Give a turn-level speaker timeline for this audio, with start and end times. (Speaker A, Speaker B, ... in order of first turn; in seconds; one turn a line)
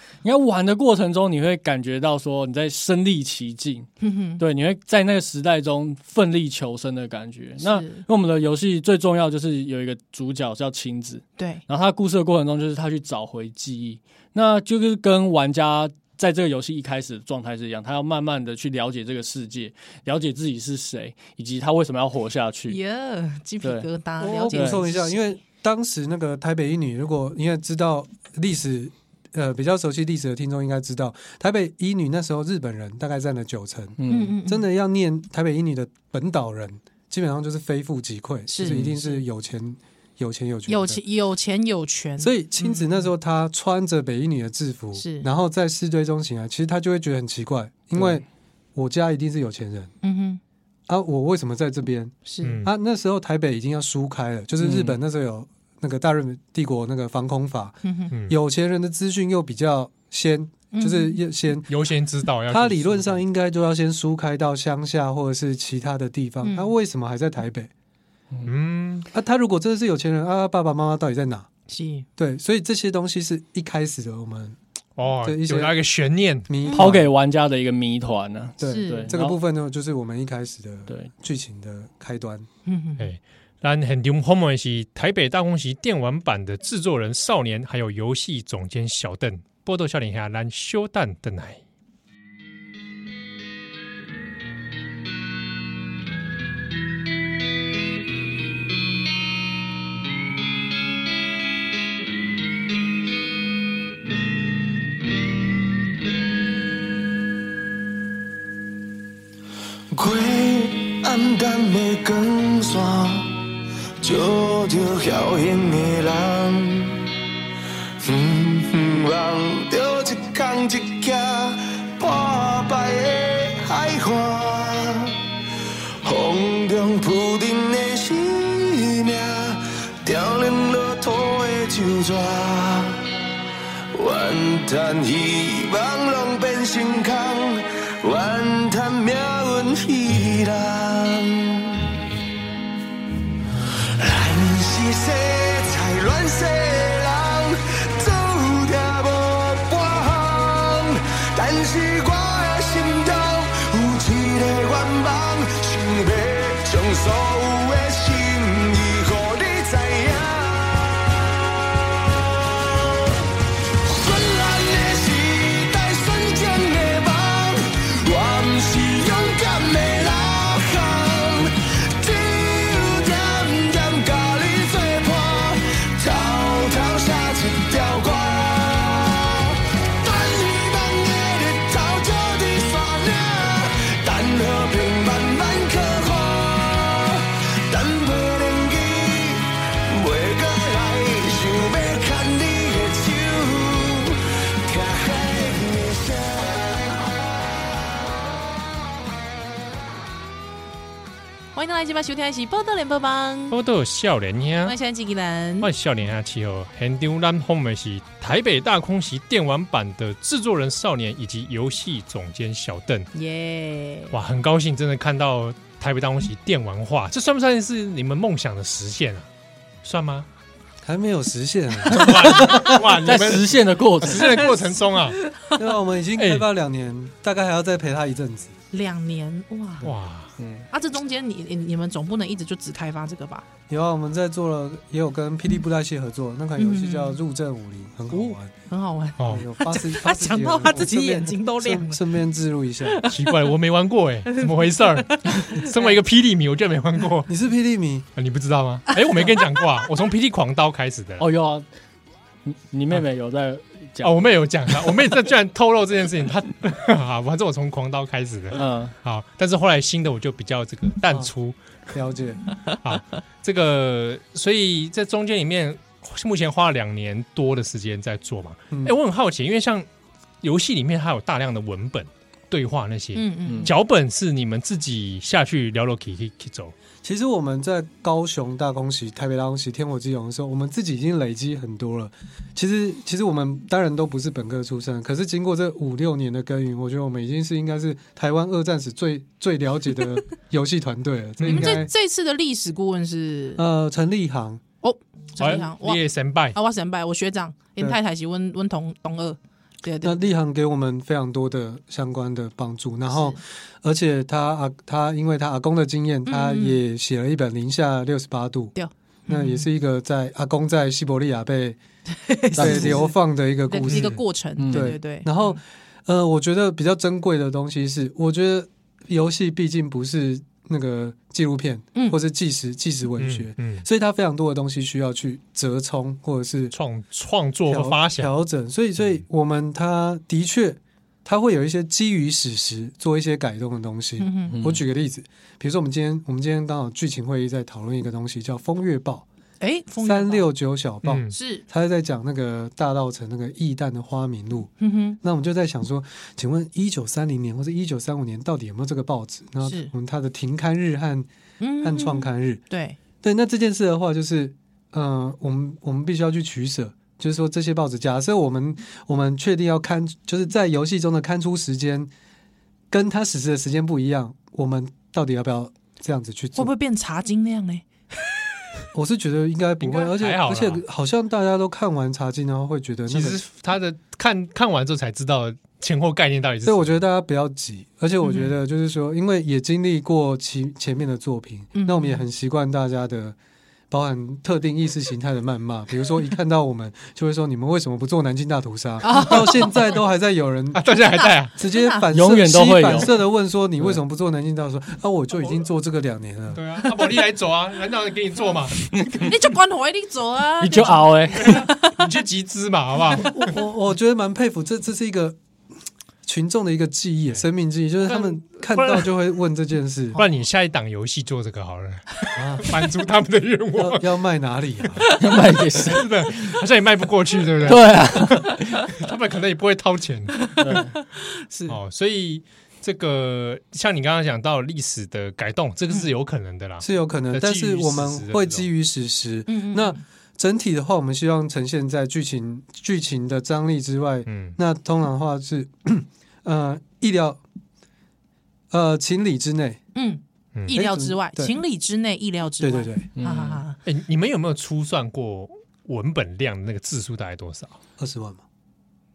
Speaker A: 0.2-22.8
Speaker B: 4.0-4.4
Speaker B: 7.6-8.0
Speaker B: 11.4-11.6
Speaker B: 22.7-25.4
Speaker A: 23.6-23.9
Speaker C: 24.2-41.0
Speaker A: 24.5-24.8
Speaker A: 34.0-34.4
Speaker B: 34.1-34.7
Speaker B: 38.5-39.2
Speaker A: 38.6-39.0
Speaker B: 40.7-43.1
Speaker C: 42.2-49.9
Speaker B: 45.0-45.3
Speaker A: 48.0-48.2
Speaker B: 50.0-50.4
Speaker C: 50.9-61.7
Speaker B: 52.3-52.6
Speaker D: 52.4-52.7
Speaker A: 54.6-55.0
Speaker B: 57.8-58.1
Speaker D: 58.1-58.4
Speaker B: 60.7-61.2
Speaker D: 61.7-63.2
Speaker C: 62.5-67.7
Speaker B: 66.4-66.7
Speaker D: 68.5-69.1
Speaker C: 69.1-71.5
Speaker B: 71.7-72.1
Speaker C: 72.2-74.6
Speaker D: 75.0-76.5
Speaker C: 75.2-75.7
Speaker C: 76.5-77.1
Speaker A: 76.7-79.4
Speaker C: 78.6-82.5
Speaker B: 78.6-79.1
Speaker B: 82.7-83.1
Speaker D: 83.0-91.6
Speaker E: 109.9-113.4
Speaker E: 114.0-117.0
Speaker E: 118.0-125.2
Speaker E: 126.0-133.1
Speaker E: 133.9-141.9
Speaker E: 143.8-161.2
Speaker E: 162.0-163.2
Speaker E: 163.8-196.8
Speaker B: 201.6-203.6
Speaker D: 203.5-204.8
Speaker B: 204.6-205.7
Speaker D: 205.6-213.1
Speaker B: 213.1-214.1
Speaker D: 214.1-219.3
Speaker D: 219.8-220.3
Speaker C: 220.8-222.8
Speaker D: 221.9-225.2
Speaker A: 221.9-224.5
Speaker B: 224.1-225.6
Speaker C: 225.6-228.6
Speaker D: 226.2-226.5
Speaker B: 228.7-229.9
Speaker D: 229.8-230.4
Speaker A: 230.4-230.7
Speaker B: 230.7-233.5
Speaker C: 233.7-238.5
Speaker B: 236.6-237.2
Speaker B: 238.1-242.0
Speaker D: 239.2-239.4
Speaker C: 239.3-243.0
Speaker B: 242.8-243.4
Speaker D: 243.1-247.3
Speaker B: 245.0-246.0
Speaker C: 247.3-248.1
Speaker D: 248.2-251.3
Speaker B: 248.9-249.6
Speaker A: 251.2-251.7
Speaker A: 252.4-254.3
Speaker D: 254.0-261.6
Speaker A: 258.5-258.9
Speaker C: 261.9-262.4
Speaker D: 262.8-269.9
Speaker C: 268.7-269.0
Speaker D: 270.4-276.8
Speaker B: 273.1-273.7
Speaker C: 277.0-291.9
Speaker D: 291.4-291.8
Speaker B: 291.5-293.6
Speaker C: 293.6-294.6
Speaker B: 294.8-300.2
Speaker D: 295.4-296.6
Speaker C: 300.0-308.8
Speaker B: 303.1-303.4
Speaker B: 306.3-306.8
Speaker B: 308.8-309.7
Speaker C: 309.3-311.8
Speaker B: 312.2-313.1
Speaker C: 312.6-326.8
Speaker A: 312.6-313.0
Speaker B: 313.7-315.6
Speaker A: 314.6-315.0
Speaker D: 323.2-323.9
Speaker D: 326.7-328.3
Speaker C: 327.7-339.3
Speaker B: 334.2-334.6
Speaker A: 334.5-334.8
Speaker B: 339.6-340.5
Speaker C: 340.0-351.3
Speaker D: 341.0-341.4
Speaker B: 341.3-341.6
Speaker B: 344.8-345.2
Speaker B: 349.6-349.9
Speaker B: 351.6-353.0
Speaker C: 351.8-352.6
Speaker C: 353.2-362.1
Speaker C: 362.9-366.7
Speaker B: 366.6-368.4
Speaker C: 368.9-373.4
Speaker D: 369.8-370.8
Speaker D: 373.1-377.0
Speaker C: 376.6-383.4
Speaker B: 378.2-378.5
Speaker B: 381.8-382.2
Speaker C: 383.9-390.8
Speaker B: 389.0-389.9
Speaker D: 390.7-391.5
Speaker B: 391.1-392.1
Speaker C: 391.6-396.6
Speaker A: 392.1-393.2
Speaker D: 396.5-398.9
Speaker A: 399.0-399.3
Speaker B: 399.2-402.0
Speaker A: 400.6-401.7
Speaker D: 401.4-403.6
Speaker C: 403.2-405.4
Speaker C: 406.2-410.2
Speaker D: 408.1-409.1
Speaker D: 410.2-414.1
Speaker C: 412.4-412.8
Speaker C: 413.8-415.1
Speaker A: 415.2-416.1
Speaker D: 415.7-420.8
Speaker A: 417.6-418.7
Speaker B: 420.4-421.8
Speaker A: 420.6-420.9
Speaker D: 421.7-428.7
Speaker C: 426.8-437.4
Speaker B: 429.5-430.0
Speaker D: 434.3-434.6
Speaker C: 438.7-439.8
Speaker B: 439.9-443.8
Speaker C: 440.7-441.6
Speaker C: 442.6-443.1
Speaker A: 443.2-443.6
Speaker D: 443.9-447.8
Speaker C: 448.0-448.4